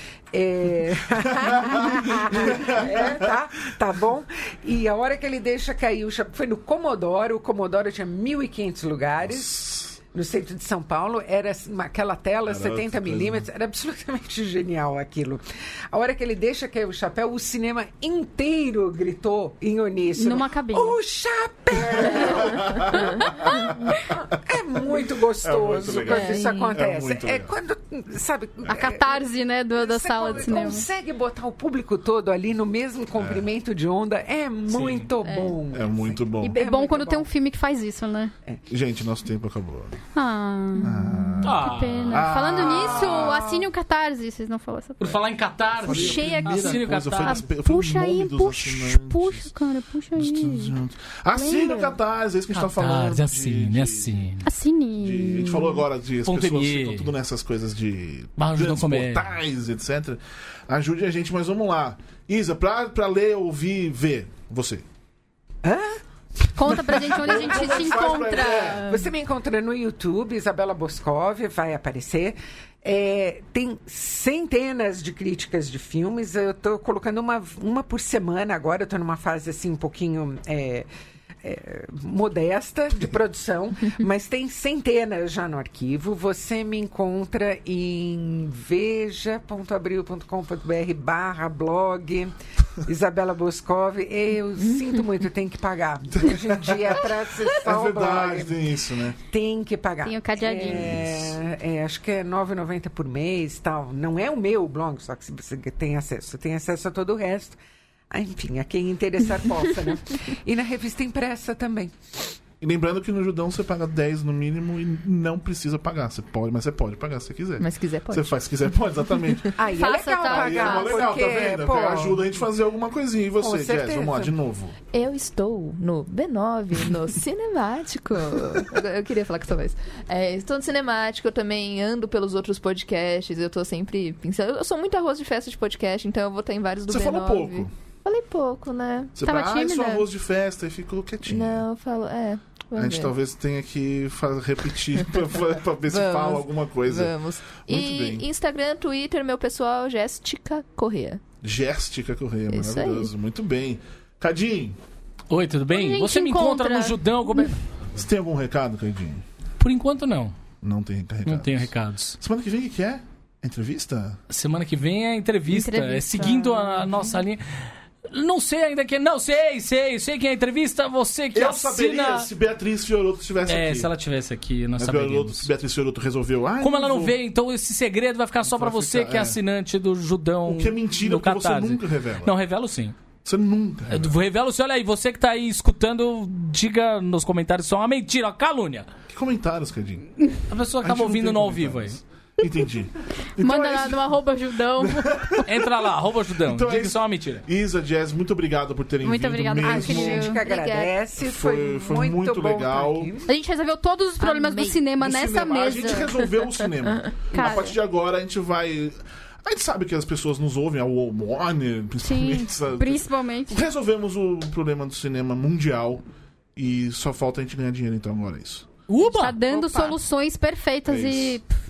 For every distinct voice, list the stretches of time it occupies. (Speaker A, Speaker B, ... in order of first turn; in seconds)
Speaker A: 0.3-29.2, 29.8-37.3, 65.6-80.9, 81.4-92.3, 92.8-98.5, 99.3-107.6, 108.1-112.3, 119.6-122.2, 123.4-124.3, 199.6-203.3, 219.5-219.9
Speaker B: 1.6-3.2, 9.2-10.0, 12.5-13.5, 22.0-23.9, 24.9-27.5, 30.4-30.7, 33.2-33.5, 35.7-36.6, 38.7-40.0, 40.8-43.7, 45.8-49.5, 50.1-54.2, 55.0-64.8, 67.0-68.9, 96.2-96.8, 97.5-99.2, 100.7-101.4, 112.6-119.5, 120.2-124.8, 136.9-137.7, 139.2-141.7, 142.7-148.3, 151.4-154.8, 157.9-159.2, 160.6-164.2, 171.3-173.9, 174.8-177.2, 178.4-179.4, 180.4-182.4, 183.2-184.2, 189.1-190.1, 190.8-195.7, 196.4-200.3, 201.2-203.1, 205.0-216.0, 216.6-218.7, 220.9-221.4
Speaker C: 20.2-21.0, 22.9-24.1, 25.9-26.7, 28.7-30.9, 35.2-35.6, 36.4-38.3, 40.1-45.2, 45.8-50.8, 51.3-52.0, 54.4-55.8, 66.5-69.0, 100.0-100.8, 119.7-121.1, 139.2-140.1, 155.7-157.6, 165.5-167.2, 193.4-195.5, 199.0-200.4, 203.3-206.1, 207.3-207.8, 212.0-213.6, 219.0-221.5
Speaker D: 34.7-35.1, 41.4-42.3, 45.0-47.5, 52.5-54.5, 56.2-57.1, 58.4-59.3, 155.3-157.6, 159.6-160.3, 161.3-162.2, 164.3-167.4, 168.1-172.3, 173.5-175.5, 176.6-182.9, 183.9-188.9, 190.5-192.0, 195.5-197.4, 218.9-219.4
Speaker E: 117.6-118.4, 124.9-139.1, 141.3-143.1, 145.8-151.2, 152.5-153.1, 200.4-200.9, 204.2-204.9, 207.0-207.4